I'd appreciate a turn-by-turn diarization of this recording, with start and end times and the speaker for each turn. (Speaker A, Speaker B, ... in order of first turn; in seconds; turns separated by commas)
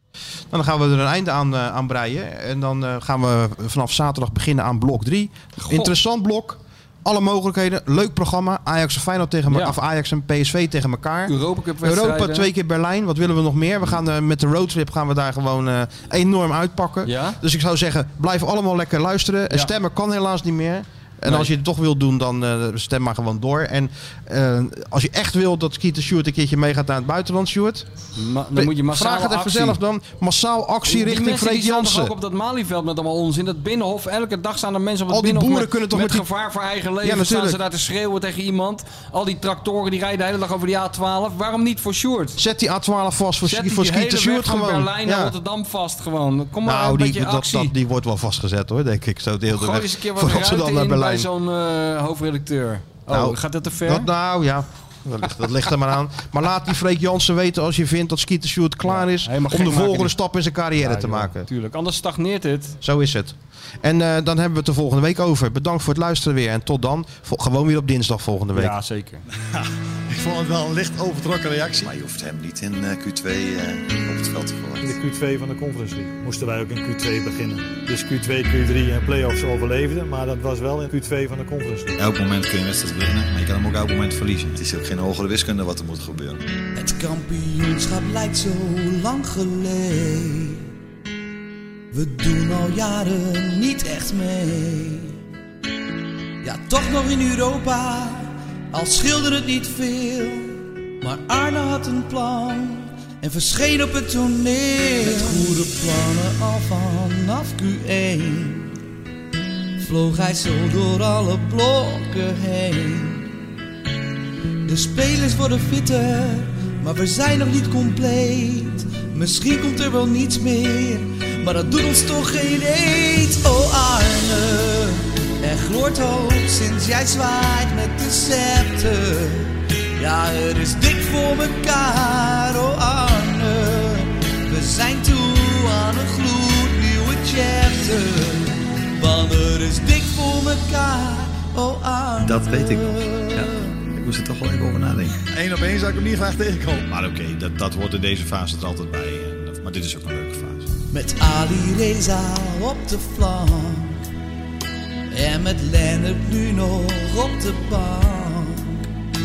Speaker A: 0.5-27.9, Speaker B: 5.6-5.9, Speaker B: 9.5-9.8, Speaker B: 11.3-12.5, Speaker B: 17.1-17.4, Speaker B: 21.2-21.5, Speaker B: 28.2-29.8, Speaker A: 28.6-32.1, Speaker B: 30.9-42.4, Speaker A: 35.1-36.3, Speaker A: 37.0-37.6, Speaker A: 42.4-45.3, Speaker B: 43.5-47.7, Speaker A: 46.6-51.3, Speaker B: 49.5-54.1, Speaker A: 53.1-61.5, Speaker B: 58.9-60.2, Speaker B: 60.8-62.8, Speaker A: 62.8-68.8, Speaker B: 68.5-69.2, Speaker C: 69.6-71.9, Speaker D: 71.8-74.9, Speaker C: 74.8-82.0, Speaker D: 82.0-86.4, Speaker E: 86.8-90.7, Speaker E: 91.9-95.2, Speaker E: 96.4-108.7, Speaker E: 109.8-113.3, Speaker E: 114.7-143.8, Speaker D: 142.2-145.2, Speaker C: 145.3-146.9, Speaker D: 146.9-150.7, Speaker E: 150.9-154.0, Speaker E: 155.1-158.8